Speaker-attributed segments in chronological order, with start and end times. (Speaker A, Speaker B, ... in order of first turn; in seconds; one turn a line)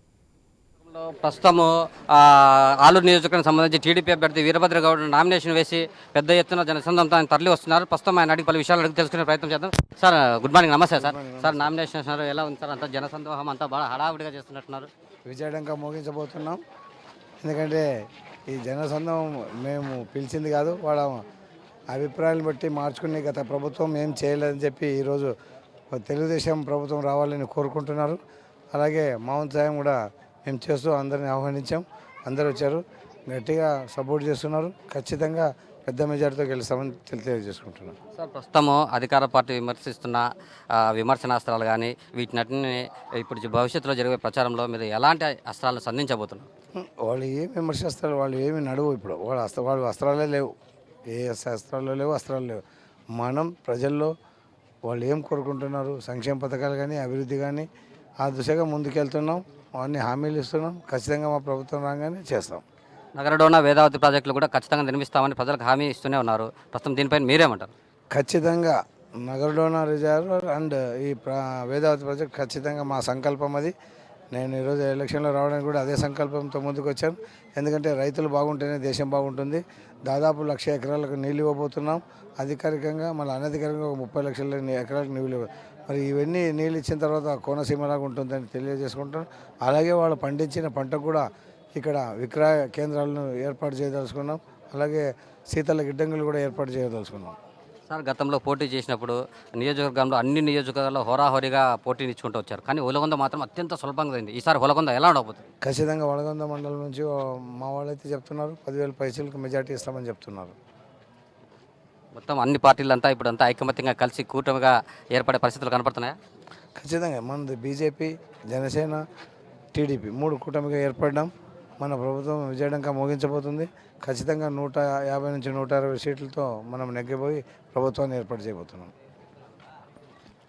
Speaker A: 0.9-14.9
Speaker B: 10.9-11.7
Speaker B: 15.3-16.6
Speaker B: 17.4-21.2
Speaker B: 21.9-25.3
Speaker B: 25.9-28.2
Speaker B: 28.7-38.0
Speaker A: 38.2-46.5
Speaker B: 46.8-50.5
Speaker B: 51.1-52.6
Speaker B: 53.1-54.1
Speaker B: 54.9-57.7
Speaker B: 58.2-62.6
Speaker A: 63.2-67.7
Speaker B: 68.1-73.7
Speaker B: 74.3-97.4
Speaker A: 97.9-105.5
Speaker B: 105.6-110.5
Speaker A: 112.1-116.2
Speaker B: 116.8-119.0
Speaker B: 119.7-128.9